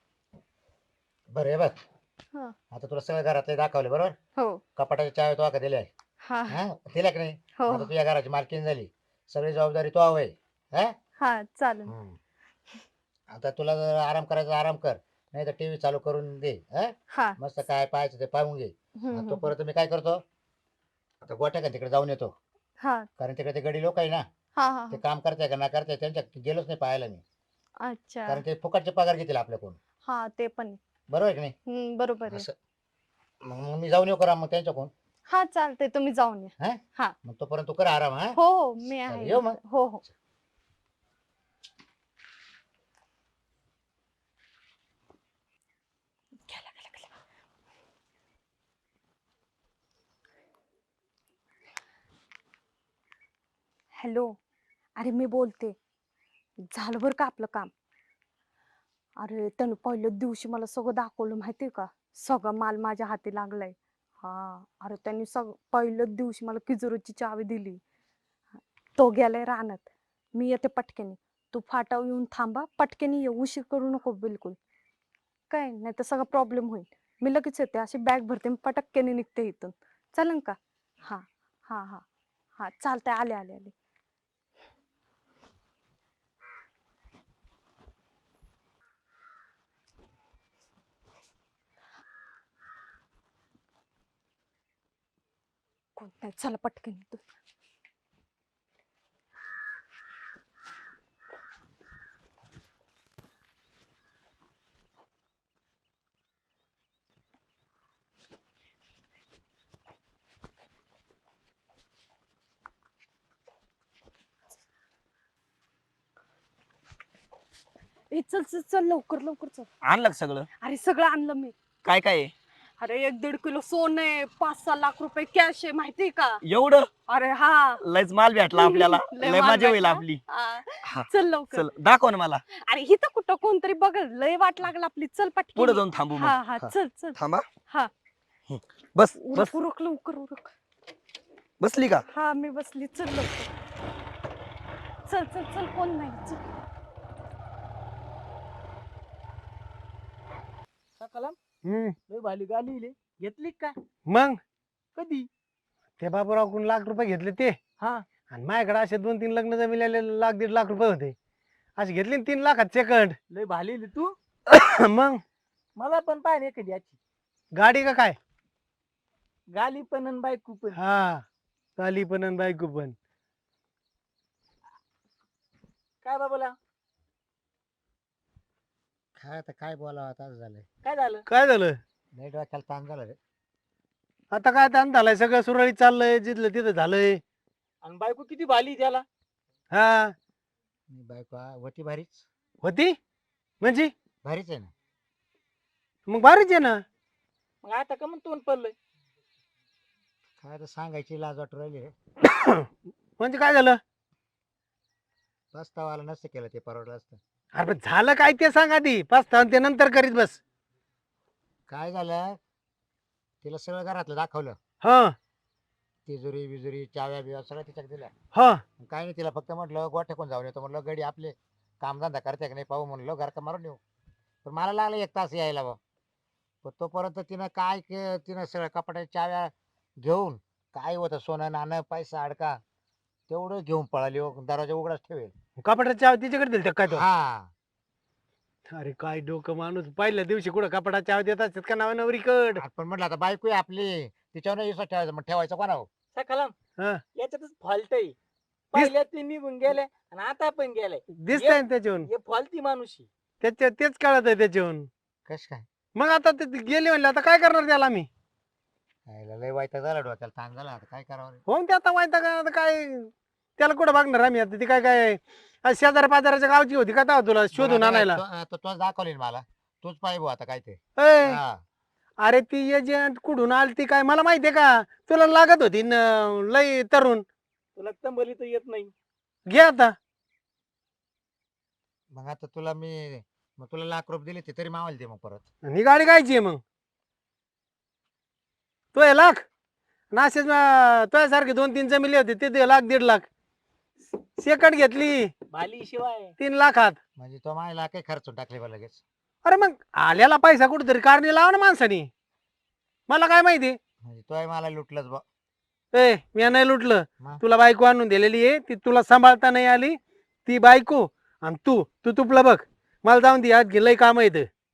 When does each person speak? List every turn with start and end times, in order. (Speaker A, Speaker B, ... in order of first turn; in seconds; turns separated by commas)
Speaker A: 1.3-1.8, Speaker A: 2.7-4.1, Speaker B: 4.4-4.6, Speaker A: 4.8-5.9, Speaker B: 6.2-6.6, Speaker A: 6.5-10.9, Speaker B: 7.6-7.9, Speaker B: 11.2-11.9, Speaker A: 11.9-12.2, Speaker A: 13.3-20.2, Speaker B: 17.1-17.4, Speaker B: 19.0-19.5, Speaker A: 21.2-22.3, Speaker B: 22.8-23.1, Speaker A: 23.2-24.2, Speaker B: 24.6-25.0, Speaker A: 24.9-27.2, Speaker B: 27.8-28.4, Speaker A: 28.3-29.8, Speaker B: 30.0-30.8, Speaker A: 31.1-31.5, Speaker B: 31.7-32.5, Speaker A: 32.3-32.5, Speaker A: 33.4-34.9, Speaker B: 35.3-37.1, Speaker A: 36.6-38.4, Speaker B: 38.3-40.0, Speaker A: 39.1-39.6, Speaker B: 46.4-47.1, Speaker B: 54.0-54.3, Speaker B: 55.0-55.7, Speaker B: 56.7-57.7, Speaker B: 59.2-67.8, Speaker B: 69.0-74.6, Speaker B: 75.5-82.0, Speaker B: 82.6-83.7, Speaker B: 96.0-97.2, Speaker B: 118.1-119.7, Speaker C: 119.8-120.5, Speaker B: 120.6-121.5, Speaker C: 121.8-122.3, Speaker B: 122.8-126.4, Speaker C: 126.4-126.9, Speaker B: 127.1-127.8, Speaker C: 127.8-130.2, Speaker B: 128.5-131.7, Speaker C: 130.8-132.4, Speaker B: 132.6-137.9, Speaker C: 135.5-137.5, Speaker C: 138.5-139.6, Speaker B: 139.2-140.5, Speaker C: 141.6-142.0, Speaker B: 142.1-143.5, Speaker B: 145.1-146.4, Speaker D: 151.0-151.4, Speaker E: 151.6-151.9, Speaker D: 152.1-153.7, Speaker E: 154.1-154.4, Speaker D: 154.9-155.3, Speaker E: 156.0-157.6, Speaker D: 157.8-158.0, Speaker E: 158.3-161.1, Speaker E: 161.8-163.2, Speaker D: 163.3-164.2, Speaker E: 164.5-165.2, Speaker D: 165.8-167.0, Speaker E: 167.5-168.2, Speaker D: 169.5-170.8, Speaker E: 170.7-171.2, Speaker E: 171.8-172.9, Speaker D: 176.0-176.5, Speaker A: 179.2-180.7, Speaker D: 180.8-181.2, Speaker E: 181.3-181.8, Speaker A: 182.1-183.2, Speaker E: 184.3-187.2, Speaker D: 187.8-189.0, Speaker E: 189.7-190.1, Speaker A: 190.9-192.2, Speaker E: 192.6-192.9, Speaker E: 193.6-193.9, Speaker A: 194.2-194.7, Speaker E: 196.1-196.8, Speaker D: 197.6-198.7, Speaker A: 200.4-201.9, Speaker E: 202.2-202.7, Speaker E: 203.2-203.8, Speaker A: 205.5-207.2, Speaker E: 207.5-210.4, Speaker A: 211.7-212.4, Speaker A: 213.4-214.6, Speaker E: 214.8-215.1, Speaker A: 216.1-218.1, Speaker E: 218.3-218.6, Speaker A: 218.8-223.8, Speaker A: 224.4-225.8, Speaker A: 226.6-232.6, Speaker A: 233.3-235.3, Speaker E: 235.6-237.0, Speaker A: 236.9-237.5, Speaker E: 238.7-242.6, Speaker A: 242.6-245.9, Speaker D: 246.1-246.5, Speaker D: 247.2-248.1, Speaker D: 248.7-253.1, Speaker E: 251.1-252.1, Speaker E: 253.4-254.9, Speaker A: 255.2-255.6, Speaker E: 255.9-258.1, Speaker A: 259.1-261.4, Speaker E: 261.5-268.2, Speaker A: 267.5-271.6, Speaker E: 271.0-271.4, Speaker E: 272.2-277.2, Speaker D: 277.8-278.9, Speaker E: 279.5-279.9, Speaker A: 282.1-285.4, Speaker E: 285.6-286.6, Speaker E: 288.9-289.4, Speaker E: 290.1-293.2, Speaker E: 294.2-295.3, Speaker D: 295.5-296.3, Speaker E: 296.4-297.0, Speaker A: 297.2-299.0, Speaker E: 299.4-302.1, Speaker E: 303.1-303.8, Speaker A: 304.0-305.2, Speaker E: 305.9-314.5